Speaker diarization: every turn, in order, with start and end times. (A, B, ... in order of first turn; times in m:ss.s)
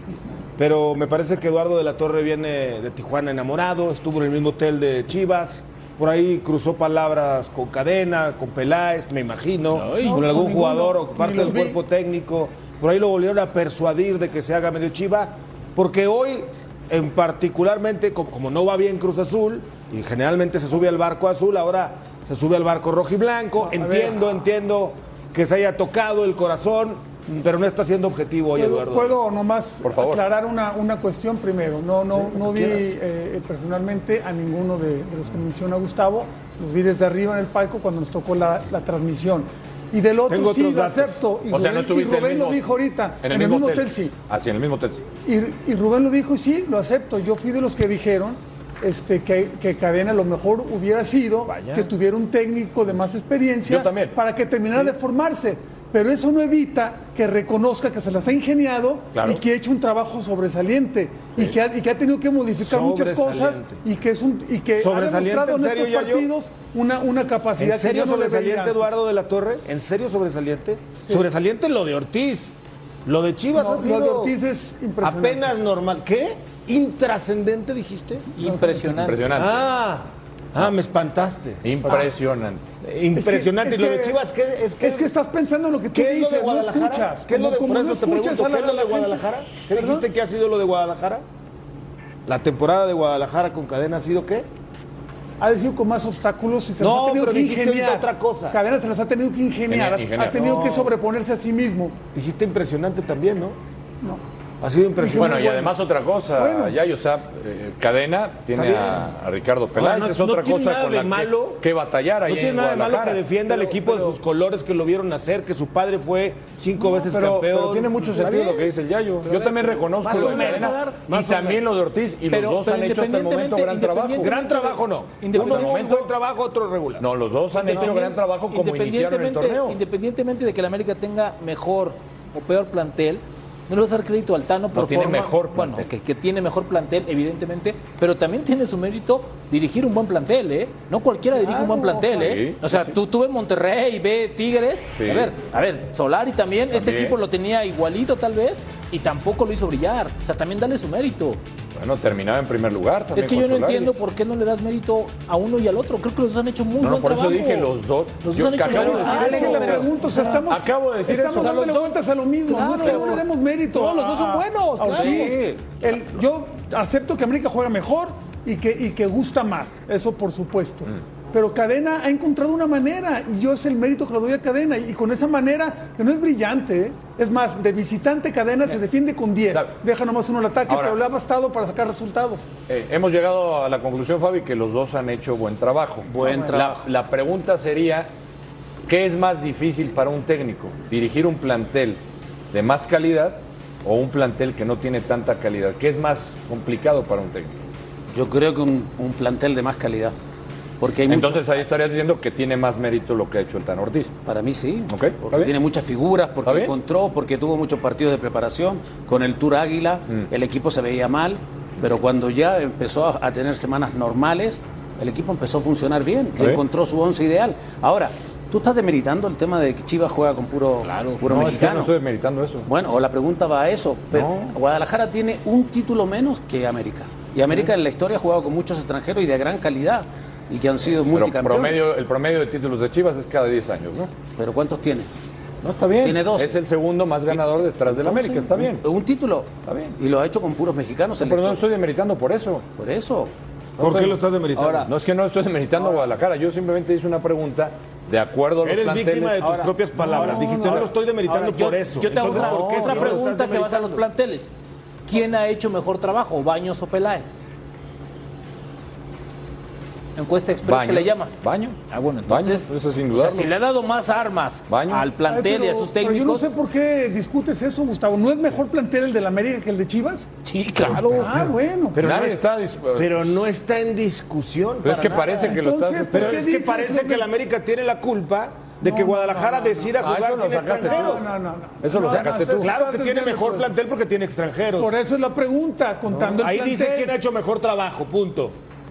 0:00.6-0:29.2 A
0:09.8-0:10.3 B
0:10.0-0:11.8 C
0:23.6-0:24.1 C
0:28.6-0:44.1 C
0:29.8-0:30.2 D
0:32.1-0:32.9 A
0:40.3-0:41.2 A
0:41.5-0:45.0 D
0:45.2-1:08.8 C
0:51.4-0:51.9 A
0:53.6-0:54.2 D
0:59.1-0:59.4 D
1:02.6-1:03.8 A
1:04.8-1:06.3 A
1:07.6-1:14.4 A
1:13.6-1:15.4 C
1:15.0-1:18.3 A
1:18.4-1:19.4 B
1:18.4-1:18.9 C
1:18.9-1:19.6 D
1:19.3-1:22.1 A
1:21.6-1:22.6 D
1:22.8-1:25.1 A
1:23.1-1:24.2 C
1:24.8-1:30.0 C
1:25.9-1:31.2 A
1:32.2-1:34.5 A
1:35.4-1:42.0 C
1:36.8-1:38.6 A
1:39.7-1:40.4 D
1:40.3-1:40.9 A
1:42.1-1:43.6 A
1:44.6-1:45.7 A
1:45.0-1:45.7 C
1:45.1-1:53.2 D
1:46.3-1:46.8 C
1:48.5-1:49.0 A
1:49.7-1:51.6 A
1:52.2-1:58.7 A
1:53.5-1:54.1 B
1:57.0-2:04.3 D
1:59.2-2:01.0 B
2:00.0-2:01.6 A
2:02.3-2:06.0 B
2:04.2-2:07.1 A
2:05.3-2:06.1 D
2:07.0-2:09.8 D
2:07.5-2:31.4 B
2:07.7-2:07.9 A
2:14.7-2:15.9 D
2:21.3-2:22.4 C
2:22.1-2:22.9 D
2:25.0-2:25.3 D
2:26.7-2:27.2 D
2:31.8-2:33.9 D
2:33.1-2:37.7 B
2:36.8-2:39.9 D
2:38.2-2:40.4 B
2:38.7-3:02.5 C
2:40.5-2:41.7 D
2:41.1-2:45.3 B
2:44.9-2:45.7 E
3:00.7-3:01.0 D
3:02.7-3:08.1 D
3:06.1-3:06.9 E
3:06.2-3:06.5 C
3:08.9-3:12.0 D
3:12.5-3:17.6 D
3:18.1-3:20.1 E
3:20.8-3:21.6 E
3:21.1-3:24.1 D
3:24.2-3:41.9 E
3:24.9-3:25.5 D
3:26.4-3:26.7 D
3:40.8-3:41.2 B
3:41.2-3:42.7 D
3:42.7-3:51.8 E
3:44.1-3:44.5 D
3:51.1-3:54.1 D
3:54.4-3:55.1 E
3:55.6-3:58.8 D
3:56.0-3:56.6 E
3:57.3-4:01.6 E
3:59.6-4:00.0 D
4:01.2-4:02.6 D
4:02.8-4:03.3 E
4:03.8-4:04.2 D
4:03.8-4:04.9 A
4:04.6-4:04.9 B
4:04.8-4:09.5 D
4:08.6-4:14.0 A
4:09.4-4:14.5 B
4:12.2-4:13.2 D
4:15.1-4:17.4 B
4:20.2-4:21.4 B
4:20.6-4:23.5 D
4:21.9-4:26.4 B
4:24.7-4:25.1 D
4:25.2-4:30.3 C
4:30.4-4:31.3 B
4:31.1-4:32.1 C
4:31.9-4:32.4 A
4:32.0-4:33.2 D
4:33.0-4:35.4 A
4:34.8-4:36.4 D
4:35.3-4:37.3 C
4:36.1-4:41.3 A
4:38.8-4:40.0 C
4:40.0-4:41.2 D
4:40.6-4:43.7 C
4:41.8-4:42.8 D
4:42.0-4:45.0 A
4:44.8-4:47.1 C
4:46.1-4:48.6 A